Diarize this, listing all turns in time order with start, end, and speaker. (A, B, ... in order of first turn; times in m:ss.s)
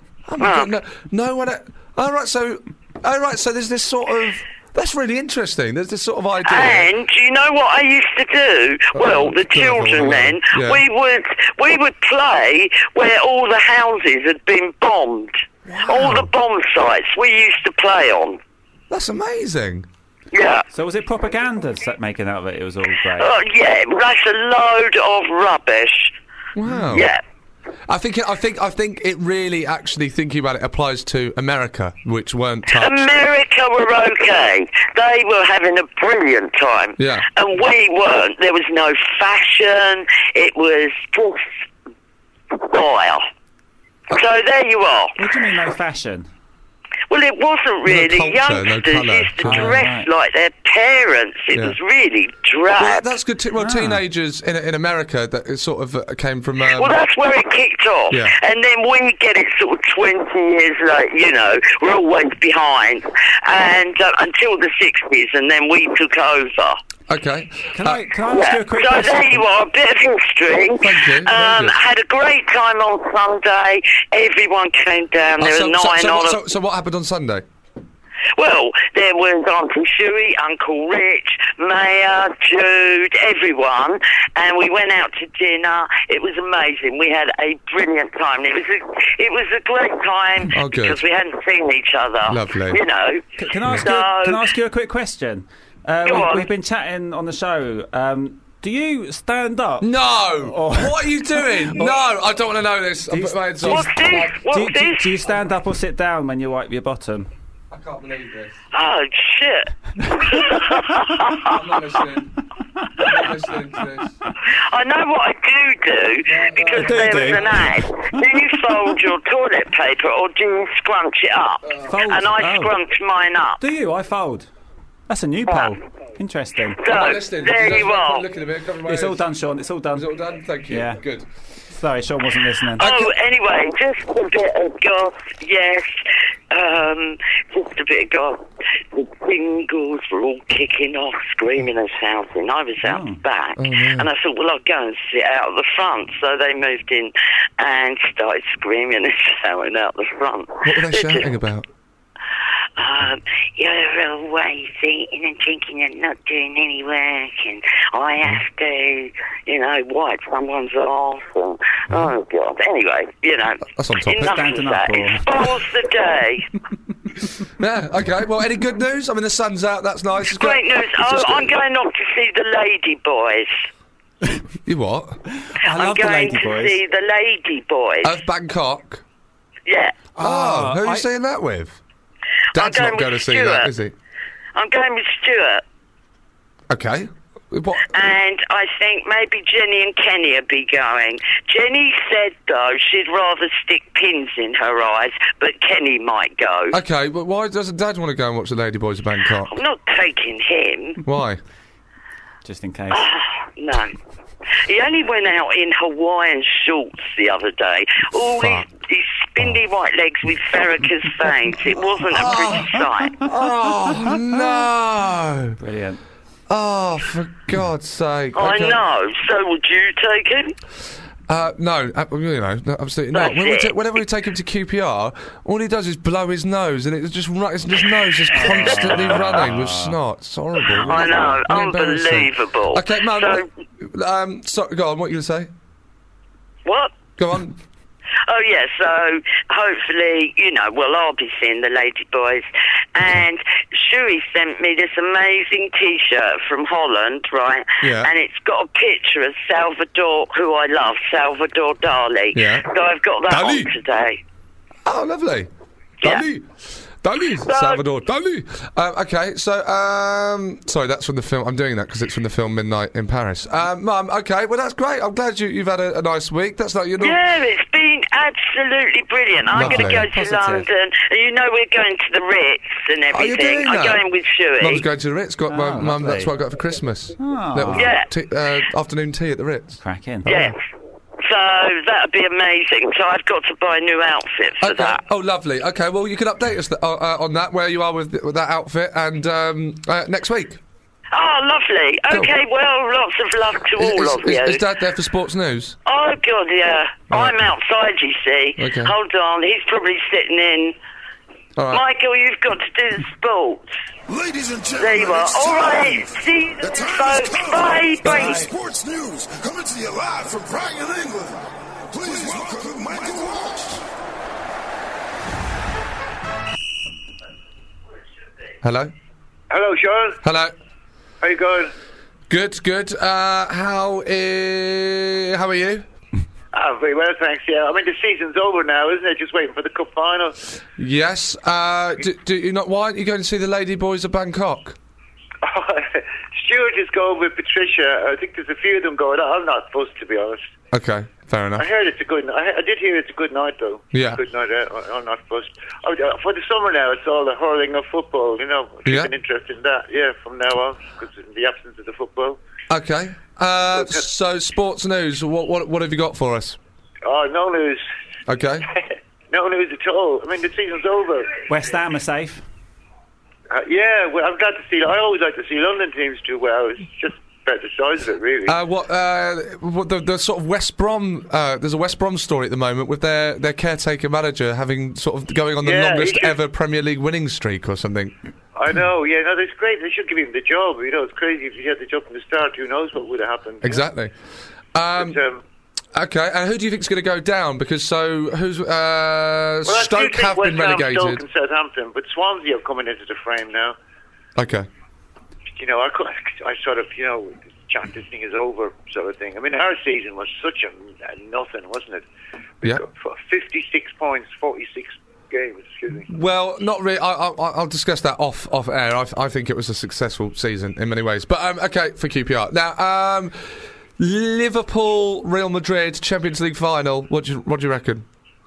0:00.3-0:06.9 A
0:00.4-0:00.7 B
0:06.4-0:18.4 B
0:08.9-0:10.8 A
0:15.7-0:16.3 A
0:18.9-0:19.9 A
0:20.3-0:20.6 B
0:20.7-0:23.3 C
0:23.2-0:26.1 B
0:26.6-0:27.1 A
0:26.6-0:27.0 C
0:26.9-0:27.2 B
0:27.9-0:33.0 A
0:32.7-0:41.4 B
0:37.0-0:37.3 A
0:42.5-0:43.2 B
0:44.1-0:45.1 B
0:45.2-0:46.3 C
0:47.1-0:53.0 B
0:47.8-0:49.8 A
0:49.4-0:50.1 C
0:52.8-0:57.0 A
0:53.6-0:54.0 C
0:56.6-1:06.8 B
1:07.1-1:08.0 A
1:07.7-1:09.4 C
1:08.3-1:16.4 B
1:10.8-1:11.8 A
1:15.4-1:17.4 A
1:18.4-1:33.2 B
1:30.5-1:31.0 A
1:32.2-1:32.8 A
1:33.4-1:41.9 C
1:33.7-1:34.4 B
1:36.0-1:36.5 B
1:39.8-1:44.4 A
1:43.1-1:47.3 C
1:43.6-1:45.1 B
1:47.7-1:48.6 A
1:48.7-1:51.5 B
1:50.0-1:50.6 C
1:51.4-1:52.3 A
1:53.0-1:54.2 A
1:54.7-2:03.6 B
1:56.2-1:57.7 A
1:56.7-1:58.2 C
2:01.6-2:01.9 A
2:01.8-2:02.7 C
2:03.6-2:04.5 C
2:05.1-2:06.8 C
2:06.8-2:08.2 B
2:06.8-2:09.2 A
2:08.8-2:10.1 C
2:09.9-2:11.3 A
2:10.7-2:11.0 C
2:11.7-2:12.8 C
2:12.8-2:16.0 B
2:12.8-2:13.1 A
2:16.5-2:31.3 B
2:22.8-2:23.2 C
2:23.6-2:24.1 A
2:30.6-2:31.7 A
2:32.8-2:46.4 B
2:43.7-2:44.4 A
2:44.2-2:45.4 C
2:47.6-2:51.5 A
2:50.3-2:53.5 B
2:54.6-2:55.2 A
2:55.3-2:56.8 C
2:55.6-2:58.1 B
2:58.0-2:59.0 A
2:59.6-3:00.0 B
3:00.2-3:01.1 C
3:00.2-3:01.8 A
3:02.5-3:03.9 A
3:02.5-3:03.7 B
3:04.5-3:05.6 B
3:06.7-3:07.9 A
3:07.9-3:16.8 B
3:16.7-3:19.5 A
3:19.4-3:21.0 B
3:21.0-3:21.4 A
3:22.4-3:23.0 C
3:22.9-3:23.9 B
3:24.6-3:33.3 B
3:28.2-3:28.6 A
3:32.0-3:35.6 A
3:32.5-3:33.3 C
3:34.0-3:34.4 C
3:35.6-3:36.0 C
3:36.5-3:38.8 A
3:38.3-3:40.5 B
3:41.3-3:55.5 A
3:43.1-3:43.8 B
3:48.3-3:50.0 C
3:48.5-3:49.2 B
3:50.7-3:51.4 C
3:50.7-3:53.5 B
3:56.6-3:56.9 B
3:57.2-3:57.6 A
3:58.3-4:14.2 B
4:07.8-4:08.1 A
4:12.3-4:12.6 A
4:13.3-4:13.7 A
4:14.8-4:15.5 A
4:16.0-4:27.2 A
4:17.4-4:17.8 B
4:27.0-4:34.8 B
4:29.5-4:30.6 C
4:29.5-4:30.1 A
4:33.1-4:34.0 A
4:34.6-4:40.6 A
4:35.5-4:36.4 C
4:37.2-4:37.9 C
4:37.7-4:38.1 B
4:39.8-4:40.3 C
4:40.2-4:40.6 B
4:41.2-4:45.0 B
4:44.6-4:50.6 A
4:51.1-4:54.6 B
4:53.8-4:55.8 A
4:55.8-5:00.7 B
4:57.1-4:57.5 A
4:58.6-4:58.9 A
5:01.6-5:01.8 A
5:01.7-5:03.7 B
5:04.1-5:06.1 D
5:04.8-5:08.5 B
5:06.6-5:13.8 D
5:18.6-5:18.9 A
5:19.5-5:20.2 E
5:20.2-5:20.5 A
5:21.2-5:21.7 E
5:22.3-5:25.9 A
5:26.5-5:30.4 E
5:30.8-5:34.8 A
5:35.4-5:40.4 E
5:40.7-5:41.7 A
5:41.6-5:52.4 E
5:43.9-5:44.2 A
5:48.8-5:49.1 A
5:52.7-5:56.6 A
5:57.0-5:57.8 E
5:58.3-5:58.6 A
5:59.3-6:01.4 E
6:01.5-6:02.4 C
6:03.5-6:08.6 E
6:08.5-6:18.2 A
6:15.6-6:16.4 E
6:18.5-6:23.8 E
6:23.6-6:24.1 A
6:24.7-6:25.2 A
6:25.0-6:25.4 E
6:25.9-6:31.2 A
6:29.6-6:33.8 E
6:34.4-6:34.7 A
6:35.6-6:42.0 E
6:42.6-6:46.1 E
6:46.1-6:58.0 A